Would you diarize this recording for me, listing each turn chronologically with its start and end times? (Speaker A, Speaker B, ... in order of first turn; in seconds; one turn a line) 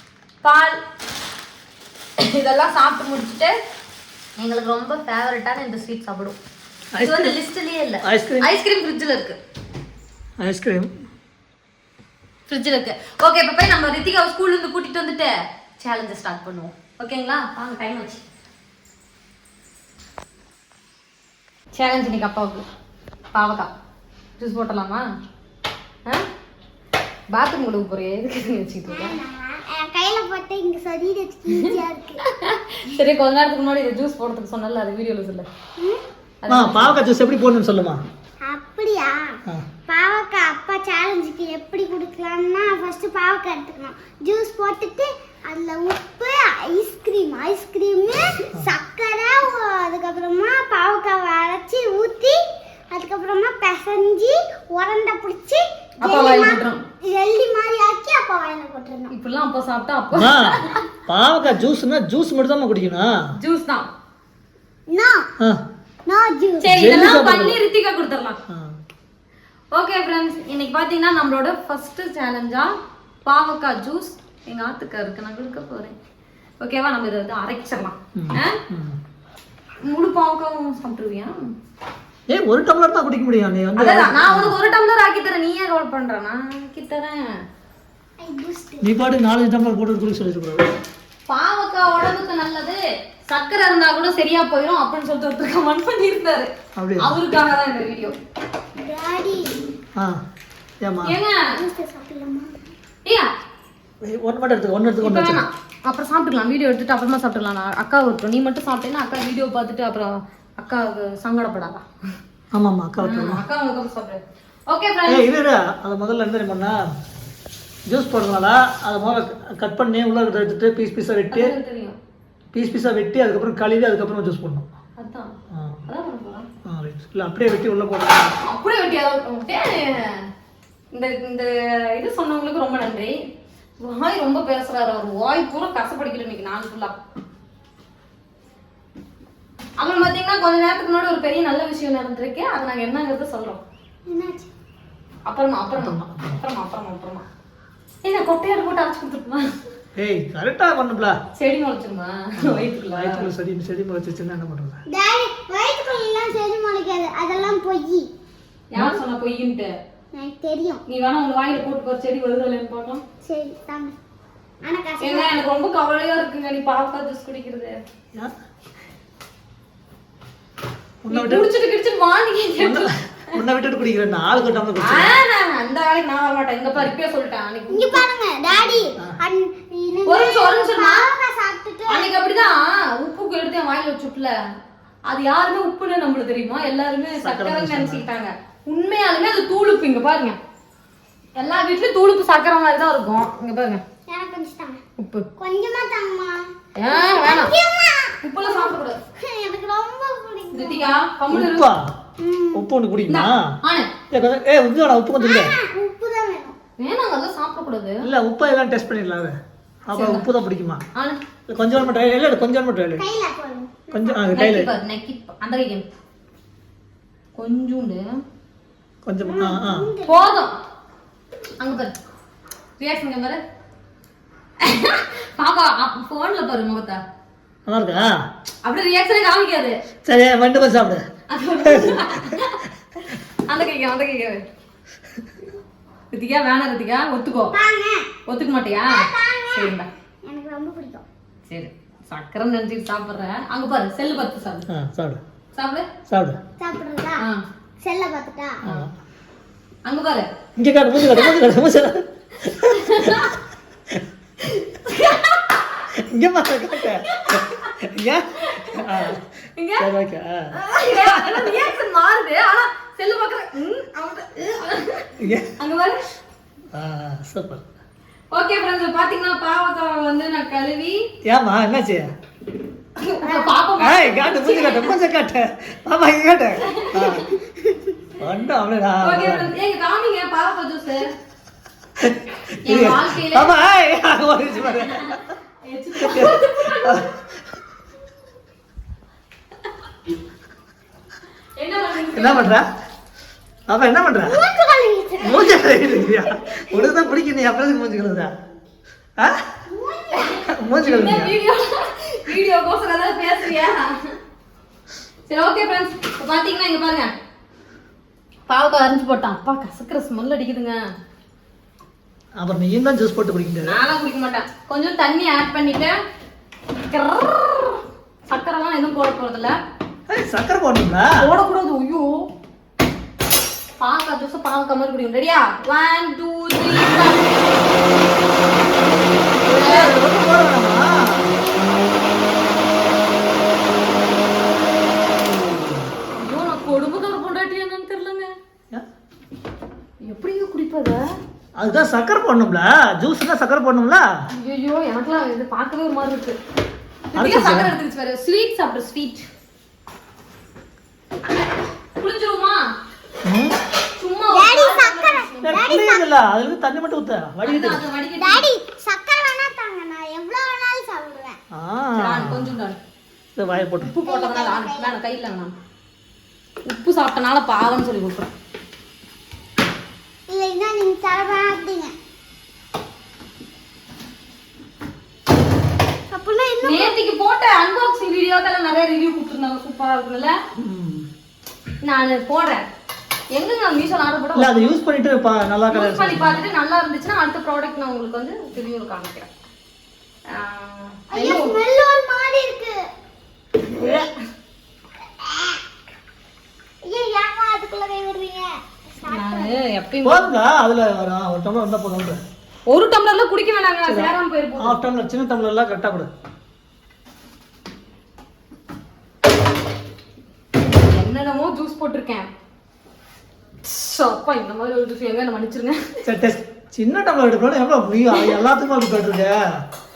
Speaker A: 0.4-0.8
Speaker A: 2.2-3.5
Speaker A: 4.4-6.3
Speaker B: 6.9-7.3
Speaker A: 7.0-9.4
Speaker B: 8.0-8.5
Speaker B: 10.4-10.9
Speaker A: 12.5-18.2
Speaker A: 21.7-22.6
Speaker A: 23.3-23.7
Speaker A: 24.4-25.0
Speaker A: 27.3-29.2
Speaker C: 28.9-32.2
Speaker A: 31.5-35.5
Speaker A: 36.4-37.0
Speaker B: 36.5-38.0
Speaker C: 38.4-52.4
Speaker C: 52.9-59.1
Speaker A: 56.0-56.8
Speaker A: 59.1-60.8
Speaker B: 60.1-63.1
Speaker A: 63.4-63.9
Speaker C: 64.9-65.2
Speaker C: 66.0-66.7
Speaker A: 66.6-68.4
Speaker B: 66.7-67.6
Speaker A: 69.7-72.7
Speaker A: 73.2-75.9
Speaker A: 76.6-78.6
Speaker B: 78.1-79.0
Speaker A: 79.8-81.3
Speaker B: 82.3-84.5
Speaker A: 83.8-87.2
Speaker C: 88.2-88.8
Speaker B: 88.8-90.7
Speaker A: 91.3-98.2
Speaker B: 96.8-97.1
Speaker C: 98.8-99.6
Speaker B: 100.8-101.2
Speaker A: 101.0-101.6
Speaker C: 101.5-102.6
Speaker A: 103.0-103.3
Speaker B: 104.0-105.4
Speaker A: 105.0-111.8
Speaker B: 112.5-113.4
Speaker A: 113.0-115.3
Speaker B: 115.1-116.8
Speaker B: 117.9-121.5
Speaker A: 121.3-122.0
Speaker B: 122.5-124.7
Speaker A: 125.0-125.3
Speaker B: 125.5-125.8
Speaker A: 125.9-126.5
Speaker B: 126.6-128.3
Speaker A: 128.4-130.3
Speaker A: 130.9-133.2
Speaker A: 133.8-136.9
Speaker A: 139.8-143.6
Speaker C: 144.1-144.5
Speaker A: 145.3-147.2
Speaker B: 145.7-146.4
Speaker A: 148.0-149.5
Speaker B: 149.9-151.2
Speaker A: 151.3-153.3
Speaker B: 152.4-154.8
Speaker C: 154.9-158.1
Speaker A: 158.7-159.7
Speaker C: 160.1-160.8
Speaker A: 160.9-163.0
Speaker C: 163.2-163.9
Speaker C: 164.6-165.4
Speaker A: 165.0-167.7
Speaker B: 171.0-171.5
Speaker A: 171.1-172.9
Speaker B: 172.6-175.2
Speaker A: 174.8-178.8
Speaker C: 177.7-182.1
Speaker A: 180.1-181.1
Speaker A: 181.9-184.3
Speaker A: 185.1-190.4
Speaker B: 187.2-188.0
Speaker A: 191.4-193.8
Speaker C: 194.1-194.8
Speaker A: 195.0-195.3
Speaker C: 195.4-200.9
Speaker A: 196.8-197.5
Speaker A: 198.2-199.0
Speaker A: 200.5-201.7
Speaker B: 201.3-201.8
Speaker C: 202.2-202.6
Speaker B: 202.5-203.4
Speaker A: 203.1-203.9
Speaker B: 204.1-205.5
Speaker C: 205.2-206.5
Speaker A: 206.8-208.0
Speaker B: 208.0-209.3
Speaker B: 209.8-210.8
Speaker A: 209.9-210.3
Speaker B: 211.5-213.0
Speaker C: 212.9-214.2
Speaker B: 213.9-214.7
Speaker A: 214.3-215.9
Speaker A: 217.3-218.0
Speaker B: 219.0-219.9
Speaker C: 219.2-220.3
Speaker A: 220.1-220.5
Speaker A: 221.6-221.9
Speaker A: 222.8-223.4
Speaker A: 224.6-227.0
Speaker B: 227.7-228.1
Speaker A: 228.6-229.8
Speaker B: 230.0-231.0
Speaker A: 231.3-234.4
Speaker B: 231.6-232.2
Speaker A: 236.1-237.6
Speaker C: 237.5-238.1
Speaker A: 238.3-239.9
Speaker C: 238.9-241.0
Speaker A: 241.5-244.7
Speaker B: 244.7-245.2
Speaker A: 245.5-245.9
Speaker B: 246.1-246.4
Speaker C: 246.6-247.2
Speaker C: 247.8-248.6
Speaker B: 248.6-248.9
Speaker A: 248.6-248.9
Speaker A: 249.8-250.3
Speaker B: 250.6-253.3
Speaker A: 252.7-253.3
Speaker A: 254.6-255.6
Speaker B: 255.9-259.2
Speaker A: 257.0-257.7
Speaker A: 258.4-259.9
Speaker B: 259.8-261.6
Speaker A: 260.5-266.0
Speaker B: 265.2-265.5
Speaker B: 266.7-267.6
Speaker A: 268.3-271.1
Speaker B: 271.2-272.1
Speaker A: 273.0-274.9
Speaker B: 273.8-277.3
Speaker A: 276.6-277.3
Speaker B: 278.1-279.5
Speaker A: 279.0-281.1
Speaker B: 282.0-285.2
Speaker A: 282.6-283.6
Speaker A: 285.6-287.1
Speaker B: 286.0-287.1
Speaker A: 291.6-292.6
Speaker B: 292.1-292.7
Speaker B: 293.7-294.4
Speaker C: 294.2-295.8
Speaker B: 295.2-298.3
Speaker C: 299.7-300.5
Speaker A: 300.2-304.1
Speaker B: 300.5-301.3
Speaker A: 305.3-307.1
Speaker A: 308.5-310.8
Speaker B: 312.4-313.8
Speaker A: 313.6-315.9
Speaker A: 316.8-319.5
Speaker B: 320.1-321.1
Speaker A: 321.2-322.2
Speaker A: 323.8-327.7
Speaker A: 329.4-329.9
Speaker B: 329.4-331.4
Speaker A: 336.1-338.3
Speaker A: 340.0-341.0
Speaker B: 341.6-344.0
Speaker A: 344.3-346.4
Speaker A: 347.1-349.2
Speaker B: 347.1-347.7
Speaker A: 351.9-352.6
Speaker B: 353.2-353.6
Speaker A: 353.9-355.6
Speaker C: 354.3-356.1
Speaker B: 355.4-357.8
Speaker A: 357.4-358.4
Speaker C: 358.2-361.4
Speaker B: 361.5-362.4
Speaker A: 362.0-362.8
Speaker B: 363.4-363.9
Speaker A: 363.8-365.5
Speaker C: 364.0-364.9
Speaker A: 366.7-368.3
Speaker C: 370.3-371.9
Speaker C: 376.1-376.9
Speaker A: 376.6-380.4
Speaker B: 380.6-381.1
Speaker A: 381.8-382.6
Speaker A: 383.3-384.7
Speaker B: 384.3-386.4
Speaker A: 385.7-389.3
Speaker A: 390.3-391.6
Speaker C: 391.1-392.8
Speaker A: 393.6-394.1
Speaker C: 395.2-395.6
Speaker C: 396.8-399.6
Speaker A: 399.1-400.3
Speaker B: 400.0-402.2
Speaker A: 402.7-404.8
Speaker B: 403.9-406.1
Speaker A: 410.6-412.3
Speaker A: 413.6-415.8
Speaker B: 416.0-419.4